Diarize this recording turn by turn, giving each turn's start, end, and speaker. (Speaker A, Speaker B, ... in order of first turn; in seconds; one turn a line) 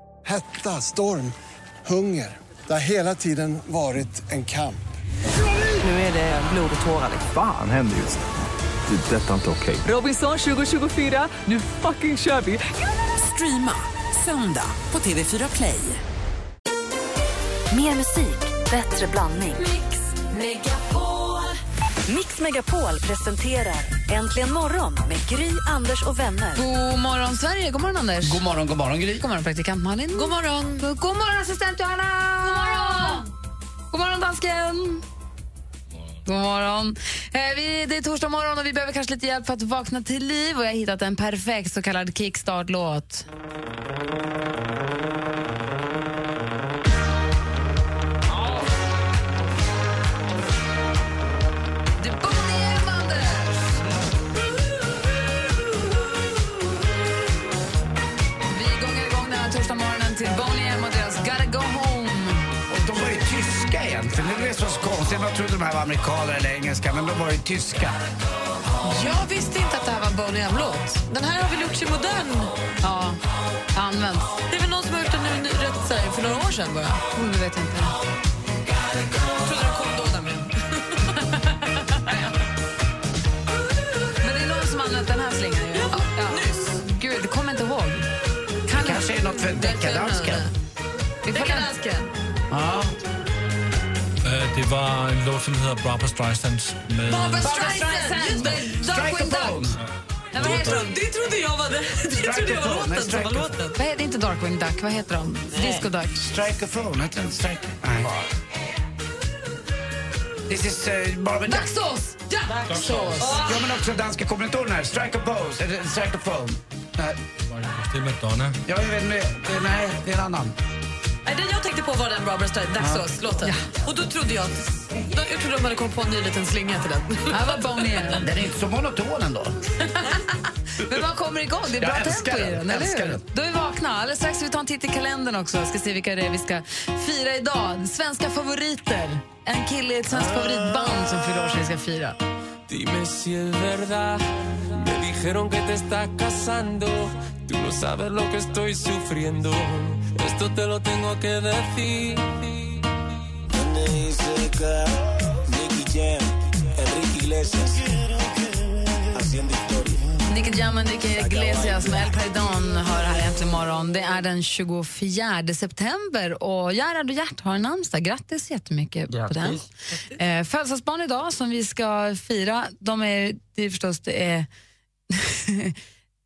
Speaker A: 0.2-4.8
Speaker A: 5.4-5.7
Speaker B: 5.8-7.3
Speaker C: 7.3-8.2
Speaker C: 8.9-9.8
Speaker B: 9.8-16.0
Speaker D: 17.7-19.6
Speaker E: 20.3-20.9
Speaker D: 22.1-26.6
Speaker E: 26.5-28.4
Speaker F: 28.2-29.2
Speaker E: 29.2-33.2
Speaker G: 30.1-30.8
Speaker E: 33.9-35.0
Speaker E: 36.2-43.3
Speaker E: 52.0-53.8
Speaker E: 58.5-62.5
Speaker F: 62.7-68.0
Speaker G: 68.8-69.9
Speaker E: 69.0-70.9
Speaker G: 70.9-72.5
Speaker E: 72.8-73.2
Speaker E: 73.7-74.4
Speaker G: 74.5-77.0
Speaker E: 77.1-78.0
Speaker G: 79.2-82.2
Speaker E: 84.2-88.1
Speaker G: 85.7-86.8
Speaker E: 88.7-89.0
Speaker F: 88.7-90.5
Speaker G: 89.4-90.5
Speaker E: 91.2-91.7
Speaker G: 91.3-92.1
Speaker F: 92.5-93.0
Speaker H: 94.2-97.6
Speaker G: 97.1-98.7
Speaker E: 97.4-99.7
Speaker F: 98.7-99.8
Speaker G: 100.3-103.8
Speaker E: 100.3-100.9
Speaker H: 100.4-100.8
Speaker F: 102.1-103.5
Speaker E: 103.8-106.2
Speaker G: 105.5-105.9
Speaker F: 106.2-108.3
Speaker F: 110.5-111.7
Speaker E: 111.5-113.4
Speaker H: 112.7-113.2
Speaker G: 113.2-113.7
Speaker F: 113.4-117.2
Speaker H: 117.4-118.6
Speaker F: 118.6-120.5
Speaker G: 121.2-128.0
Speaker F: 122.8-123.1
Speaker E: 127.3-128.3
Speaker F: 128.2-129.6
Speaker E: 130.0-142.2
Speaker F: 131.8-133.2
Speaker I: 142.7-144.2
Speaker I: 144.7-152.4
Speaker I: 156.8-157.6
Speaker E: 160.3-174.5
Speaker F: 169.1-169.6
Speaker E: 175.1-175.8